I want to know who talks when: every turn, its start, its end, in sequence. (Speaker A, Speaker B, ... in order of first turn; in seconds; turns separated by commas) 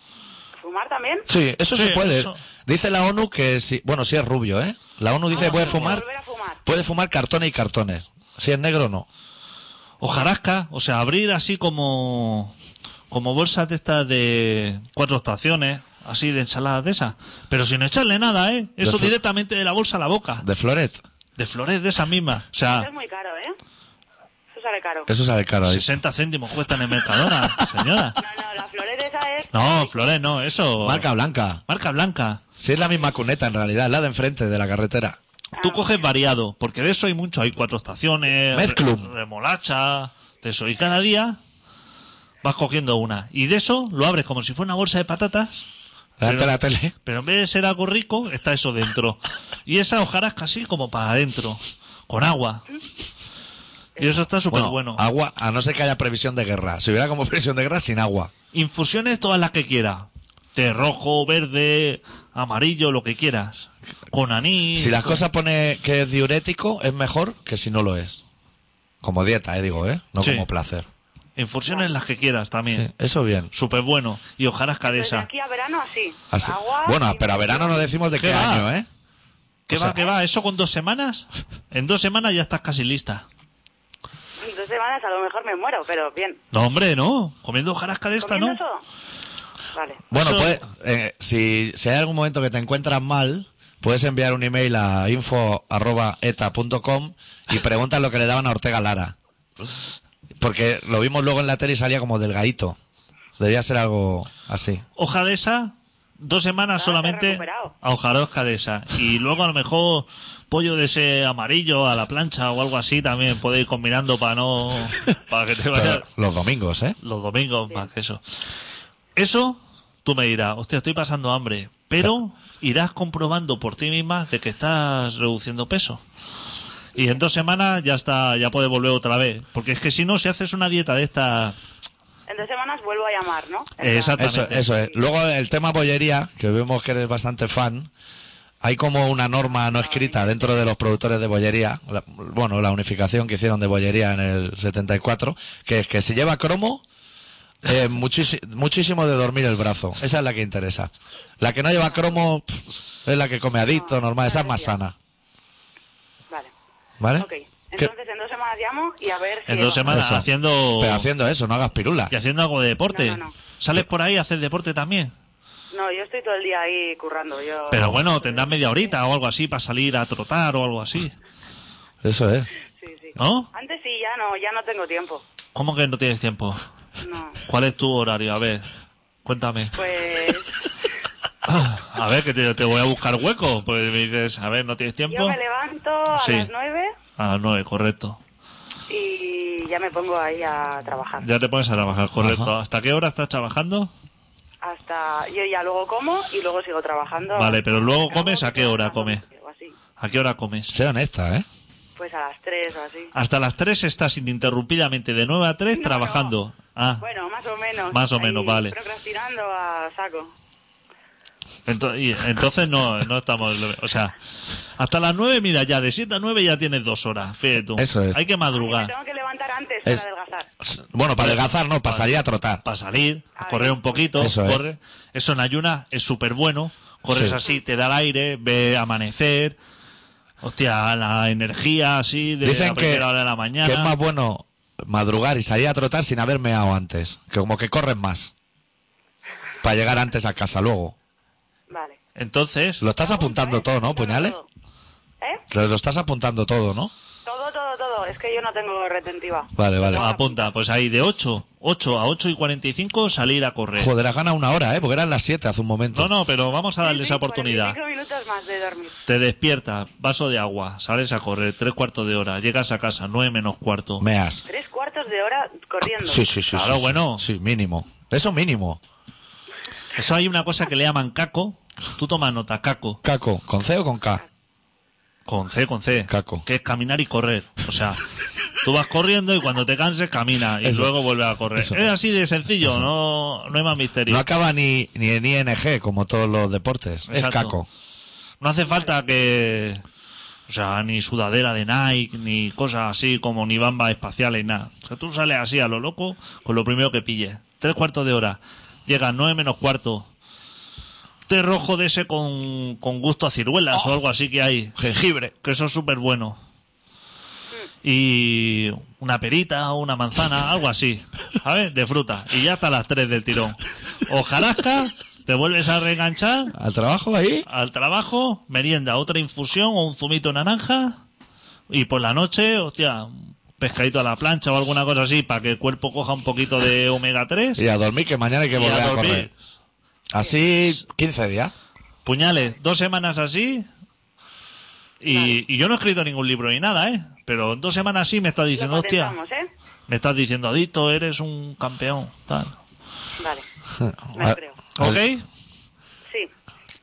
Speaker A: 0.6-1.3, Speaker B: 1.3-6.0, Speaker C: 1.7-2.4, Speaker A: 5.3-6.6, Speaker C: 5.3-6.0, Speaker B: 6.7-9.1, Speaker C: 10.0-12.5, Speaker C: 13.1-20.4, Speaker B: 18.8-19.1, Speaker B: 20.4-21.0, Speaker C: 21.4-22.9, Speaker A: 22.7-23.6, Speaker A: 24.5-25.1, Speaker B: 25.1-25.9, Speaker C: 25.6-28.2, Speaker A: 28.2-29.9, Speaker C: 29.5-31.1, Speaker B: 30.8-31.6, Speaker C: 31.7-32.4, Speaker B: 32.6-35.2, Speaker A: 35.6-36.0, Speaker C: 35.6-41.4, Speaker B: 38.5-39.1, Speaker C: 42.4-45.7, Speaker B: 46.2-46.9, Speaker C: 46.2-52.6, Speaker C: 54.0-55.0, Speaker B: 54.5-58.3, Speaker C: 58.5-65.2, Speaker B: 64.8-68.2, Speaker B: 69.0-70.9, Speaker C: 70.2-70.5, Speaker C: 71.4-72.9, Speaker B: 72.7-73.5, Speaker C: 73.5-75.3, Speaker A: 74.9-77.9, Speaker B: 76.3-78.9, Speaker C: 78.2-78.7, Speaker C: 79.7-83.2, Speaker B: 79.7-80.0, Speaker A: 84.4-86.4, Speaker C: 86.5-88.6, Speaker A: 88.2-88.8, Speaker A: 89.7-90.0, Speaker B: 90.1-99.2, Speaker C: 90.1-90.6, Speaker B: 100.4-102.8, Speaker B: 103.4-104.8, Speaker C: 105.0-116.0, Speaker A: 106.8-107.8, Speaker B: 115.7-117.0, Speaker C: 117.0-118.2, Speaker C: 119.2-126.0, Speaker C: 127.0-131.6, Speaker A: 132.3-134.9, Speaker C: 133.8-134.7, Speaker B: 134.2-137.9, Speaker B: 138.6-146.8, Speaker A: 139.8-140.3, Speaker B: 147.6-154.9, Speaker A: 153.7-154.8, Speaker B: 157.0-157.9, Speaker A: 157.2-160.0, Speaker C: 159.5-161.1, Speaker B: 159.9-162.1, Speaker C: 162.1-165.1, Speaker A: 162.9-163.3, Speaker A: 165.7-168.9, Speaker C: 167.7-171.1, Speaker B: 172.0-172.5, Speaker A: 172.8-175.2, Speaker C: 173.2-173.5, Speaker C: 175.6-176.6, Speaker A: 177.0-177.4, Speaker C: 177.5-178.7, Speaker C: 179.3-179.8, Speaker A: 179.8-180.5, Speaker C: 181.5-185.4, Speaker A: 185.1-186.9, Speaker C: 186.1-186.5, Speaker C: 187.2-188.2, Speaker A: 188.9-191.2, Speaker C: 191.2-193.9, Speaker B: 192.2-192.5, Speaker A: 194.6-199.8, Speaker C: 197.4-199.2, Speaker C: 200.0-200.8, Speaker B: 200.7-201.5, Speaker A: 202.0-203.1, Speaker C: 203.2-207.0, Speaker A: 205.7-206.3, Speaker A: 207.0-210.3, Speaker C: 207.9-208.8, Speaker C: 211.7-214.2, Speaker C: 214.8-218.9, Speaker B: 217.8-218.2, Speaker A: 218.5-220.5, Speaker B: 220.6-222.6, Speaker C: 221.2-222.1, Speaker C: 222.6-229.6, Speaker A: 223.4-224.2, Speaker B: 224.2-224.6, Speaker C: 230.4-233.9, Speaker B: 232.4-233.1, Speaker B: 233.6-238.3, Speaker B: 239.6-240.9, Speaker A: 241.7-242.0, Speaker C: 242.2-242.8, Speaker B: 242.8-244.4, Speaker A: 243.0-244.5, Speaker B: 245.5-246.9, Speaker A: 247.3-250.5, Speaker B: 249.6-250.1, Speaker C: 250.0-253.9, Speaker B: 253.8-256.1, Speaker C: 255.9-257.8, Speaker A: 256.8-258.9, Speaker C: 259.1-264.0, Speaker B: 264.0-264.4, Speaker A: 264.5-266.3, Speaker B: 265.8-268.8, Speaker C: 266.5-267.2, Speaker C: 269.9-273.0, Speaker B: 273.0-274.2, Speaker C: 275.3-278.0, Speaker B: 276.1-276.4, Speaker C: 278.6-284.2, Speaker B: 280.6-280.9, Speaker B: 281.6-281.9, Speaker B: 282.6-282.9, Speaker B: 284.1-287.7, Speaker C: 287.1-287.6, Speaker C: 288.4-289.8, Speaker C: 290.5-300.1, Speaker C: 301.3-304.8, Speaker B: 304.8-305.3, Speaker C: 305.4-306.4, Speaker C: 307.8-316.5, Speaker B: 316.5-317.5, Speaker C: 317.5-321.0, Speaker C: 321.7-327.6, Speaker B: 327.6-329.3, Speaker C: 328.5-329.3, Speaker B: 330.1-331.5, Speaker C: 332.1-333.7, Speaker C: 335.0-339.2, Speaker A: 335.1-335.4, Speaker A: 338.6-339.5, Speaker C: 339.9-342.6, Speaker A: 343.2-343.5, Speaker B: 343.8-345.0, Speaker A: 344.2-344.6, Speaker C: 344.8-345.2